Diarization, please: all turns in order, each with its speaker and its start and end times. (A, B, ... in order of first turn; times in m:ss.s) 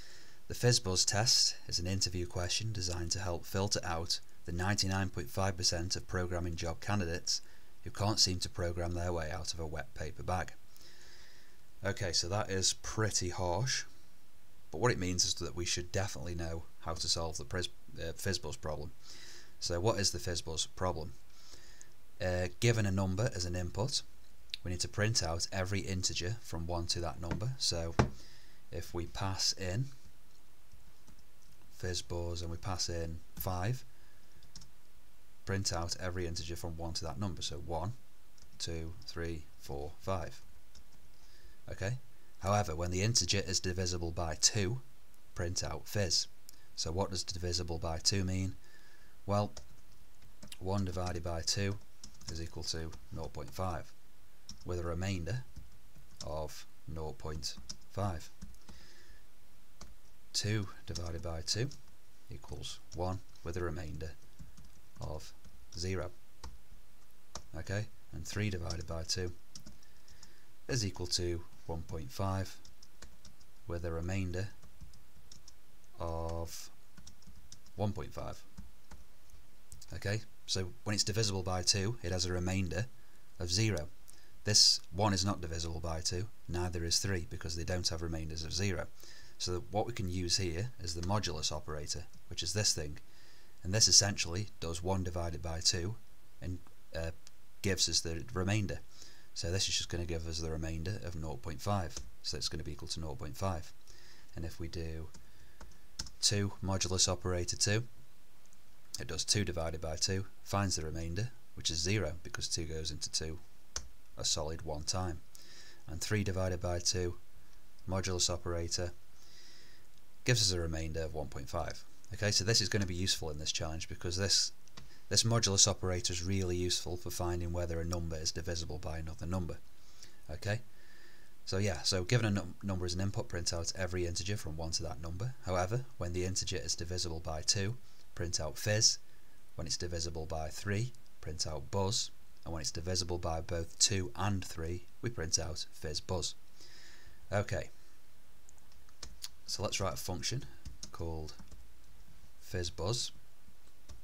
0:00.5-0:10.6 A
0:11.8-0:13.9 A
0:14.7-0:18.9 A
0:19.6-0:21.2 A
0:22.2-0:24.0 A
0:24.6-0:28.1 A
0:28.7-0:29.9 A
0:31.7-0:33.8 A
0:35.4-0:38.0 A
0:38.6-0:40.4 A
0:41.7-0:48.6 A
0:49.2-0:49.6 A
0:50.6-0:53.9 A
0:54.6-0:55.4 A
0:56.2-0:58.3 A
1:00.3-1:01.7 A
1:02.3-1:04.2 A
1:05.0-1:06.1 A
1:07.5-1:09.4 A
1:10.6-1:12.6 A
1:13.6-1:14.5 A
1:16.0-1:16.7 A
1:17.8-1:18.4 A
1:19.9-1:23.9 A
1:24.4-1:33.0 A
1:33.6-1:38.8 A
1:39.3-1:43.7 A
1:44.3-1:45.1 A
1:46.2-1:47.8 A
1:49.0-1:53.4 A
1:54.2-1:55.2 A
1:55.9-1:57.2 A
1:57.8-1:58.9 A
2:00.2-2:04.5 A
2:05.1-2:09.6 A
2:10.3-2:10.6 A
2:11.4-2:19.0 A
2:19.6-2:26.4 A
2:27.3-2:27.7 A
2:29.4-2:31.4 A
2:32.4-2:33.1 A